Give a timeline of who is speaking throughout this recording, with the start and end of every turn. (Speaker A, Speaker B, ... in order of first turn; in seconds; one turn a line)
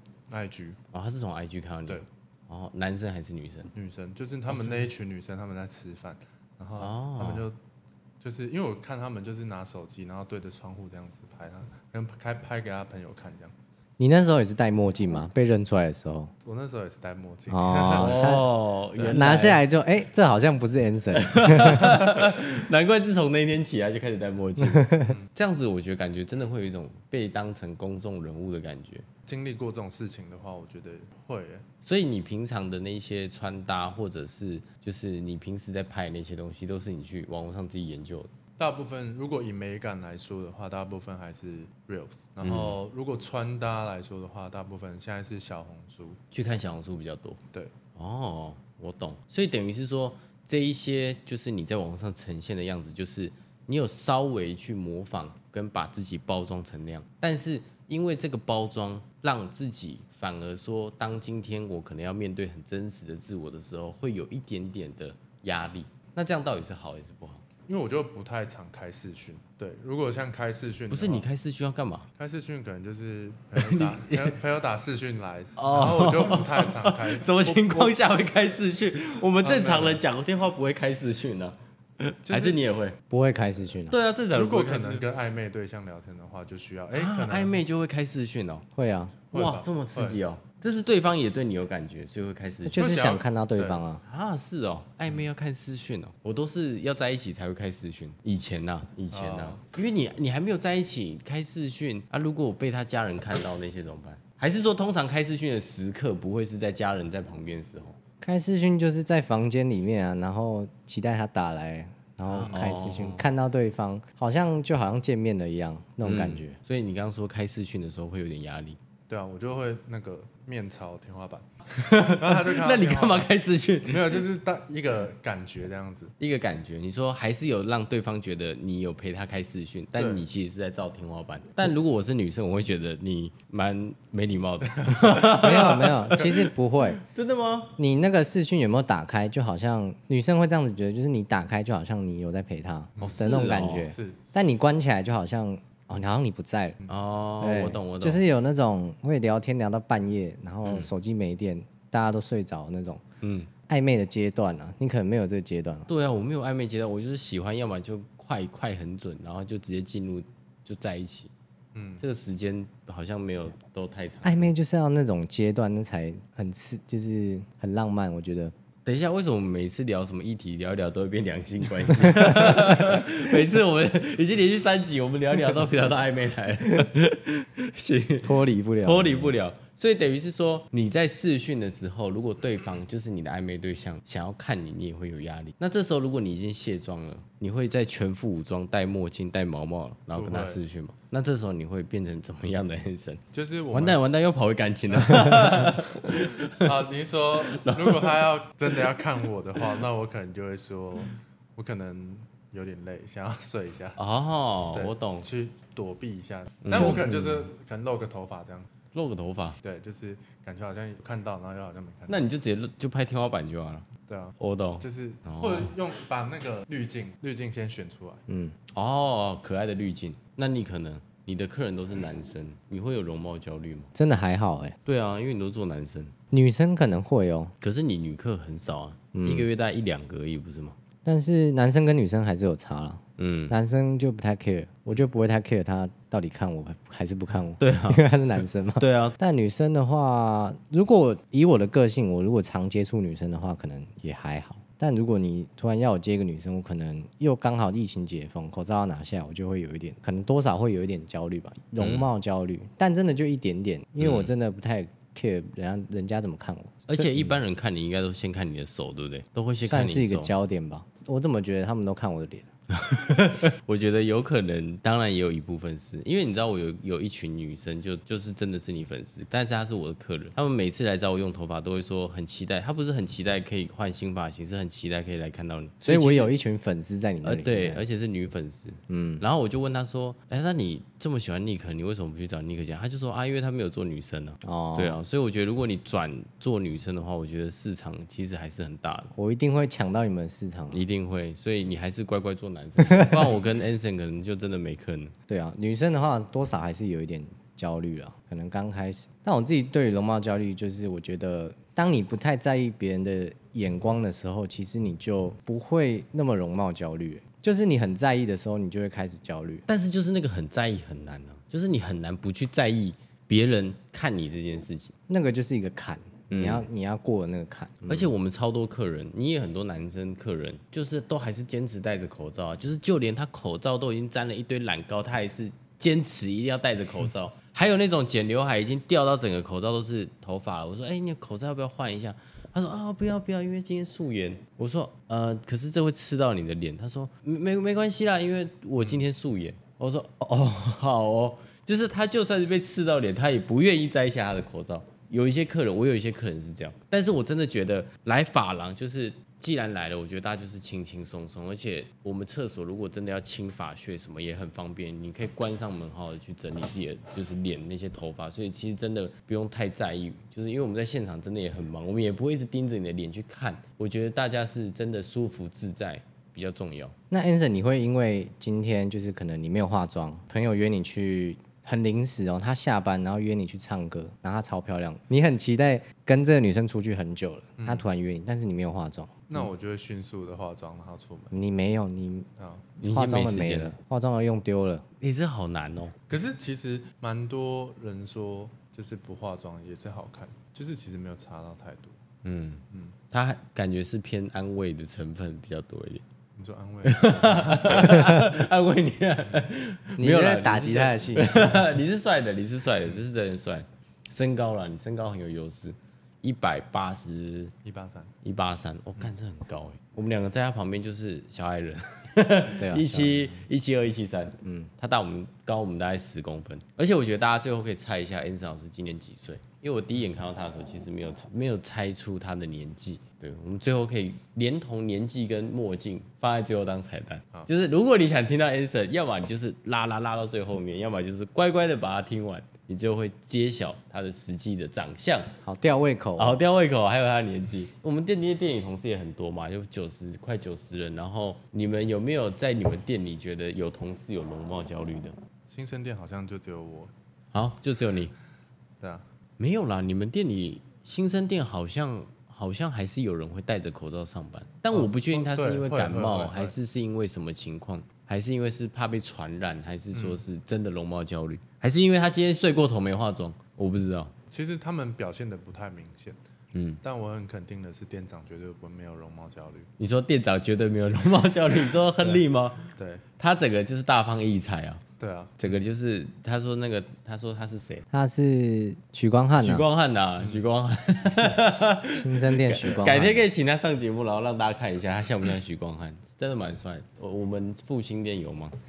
Speaker A: 0.3-0.8
Speaker B: 0.9-3.7
Speaker A: 3.8-7.6
Speaker B: 6.8-7.5
Speaker A: 8.2-13.7
Speaker C: 14.0-16.3
Speaker A: 16.4-18.4
Speaker C: 17.5-18.5
Speaker B: 17.9-19.6
Speaker A: 19.0-19.3
Speaker C: 19.0-22.2
Speaker B: 21.1-29.1
Speaker C: 24.6-25.1
Speaker A: 29.3-31.7
Speaker B: 31.8-38.3
Speaker A: 38.6-46.2
Speaker B: 42.4-42.8
Speaker B: 46.3-47.4
Speaker B: 47.9-67.4
Speaker A: 67.7-71.3
Speaker B: 70.9-72.1
Speaker A: 72.2-78.0
Speaker B: 73.6-74.4
Speaker B: 75.6-83.0
Speaker A: 79.4-80.0
Speaker A: 82.3-82.6
Speaker C: 83.1-84.0
Speaker B: 83.9-85.0
Speaker A: 84.3-87.6
Speaker B: 86.9-88.7
Speaker C: 88.8-89.2
Speaker A: 89.3-90.2
Speaker B: 89.3-92.9
Speaker C: 92.7-94.0
Speaker A: 92.8-93.8
Speaker B: 94.0-108.0
Speaker A: 99.1-99.6
Speaker C: 108.2-116.6
Speaker B: 112.3-113.3
Speaker B: 116.0-118.8
Speaker A: 119.1-123.3
Speaker B: 121.8-124.2
Speaker A: 123.9-126.1
Speaker B: 126.2-136.3
Speaker A: 130.0-130.2
Speaker A: 134.8-136.3
Speaker C: 135.2-137.0
Speaker B: 137.0-137.8
Speaker C: 137.8-146.8
Speaker A: 143.0-144.2
Speaker B: 143.0-143.9
Speaker B: 146.9-148.2
Speaker C: 147.4-153.0
Speaker B: 153.2-153.5
Speaker C: 153.7-155.9
Speaker B: 155.9-161.3
Speaker A: 161.7-162.0
Speaker B: 162.0-164.5
Speaker C: 164.2-168.5
Speaker B: 168.8-196.7
Speaker C: 172.0-172.7
Speaker C: 178.2-179.4
Speaker A: 190.2-190.6
Speaker A: 193.3-194.0
Speaker A: 195.0-195.8
Speaker A: 196.5-204.0
Speaker B: 197.5-198.4
Speaker B: 204.0-205.3
Speaker A: 204.7-208.7
Speaker B: 206.7-207.5
Speaker C: 206.8-207.1
Speaker B: 208.9-209.6
Speaker A: 209.6-212.2
Speaker B: 212.1-213.9
Speaker A: 214.1-218.2
Speaker B: 214.4-215.7
Speaker C: 218.3-218.6
Speaker B: 218.7-223.9
Speaker C: 223.9-224.8
Speaker B: 224.8-226.1
Speaker C: 226.3-227.5
Speaker B: 227.6-230.8
Speaker C: 229.1-229.5
Speaker C: 231.1-257.4
Speaker B: 233.2-233.6
Speaker B: 237.6-238.1
Speaker B: 238.8-239.2
Speaker B: 251.8-252.1
Speaker B: 254.0-254.3
Speaker B: 256.9-260.3
Speaker C: 259.6-262.5
Speaker B: 262.7-276.3
Speaker C: 275.9-277.8
Speaker B: 277.2-289.1
Speaker C: 278.9-279.2
Speaker C: 284.4-285.0
Speaker C: 289.2-290.8
Speaker B: 290.7-295.1
Speaker C: 292.9-293.2
Speaker C: 295.3-309.7
Speaker B: 309.7-314.9
Speaker C: 315.1-318.1
Speaker B: 316.3-316.6
Speaker B: 317.9-366.9
Speaker A: 338.8-339.1
Speaker C: 367.1-379.5
Speaker A: 377.6-377.9
Speaker A: 379.3-381.3
Speaker C: 381.3-382.3
Speaker A: 382.4-382.7
Speaker B: 382.8-383.8
Speaker C: 382.8-384.9
Speaker B: 385.0-386.0
Speaker A: 386.1-392.0
Speaker B: 392.2-396.0
Speaker A: 396.4-398.0
Speaker B: 396.8-407.5
Speaker C: 397.9-398.2
Speaker C: 400.0-401.8
Speaker A: 407.6-408.1
Speaker B: 408.2-435.3
Speaker C: 412.6-413.3
Speaker C: 414.4-414.7
Speaker C: 435.4-436.4
Speaker B: 436.2-445.2
Speaker A: 445.5-446.9
Speaker B: 447.3-448.1
Speaker B: 449.4-464.1
Speaker A: 454.7-456.6
Speaker A: 459.9-460.2
Speaker A: 464.3-466.2
Speaker B: 466.5-466.8
Speaker A: 466.8-469.7
Speaker B: 469.8-474.8
Speaker A: 472.0-473.0
Speaker A: 475.0-475.5
Speaker B: 475.4-477.9
Speaker C: 477.9-479.7
Speaker B: 479.4-488.6
Speaker C: 481.9-483.2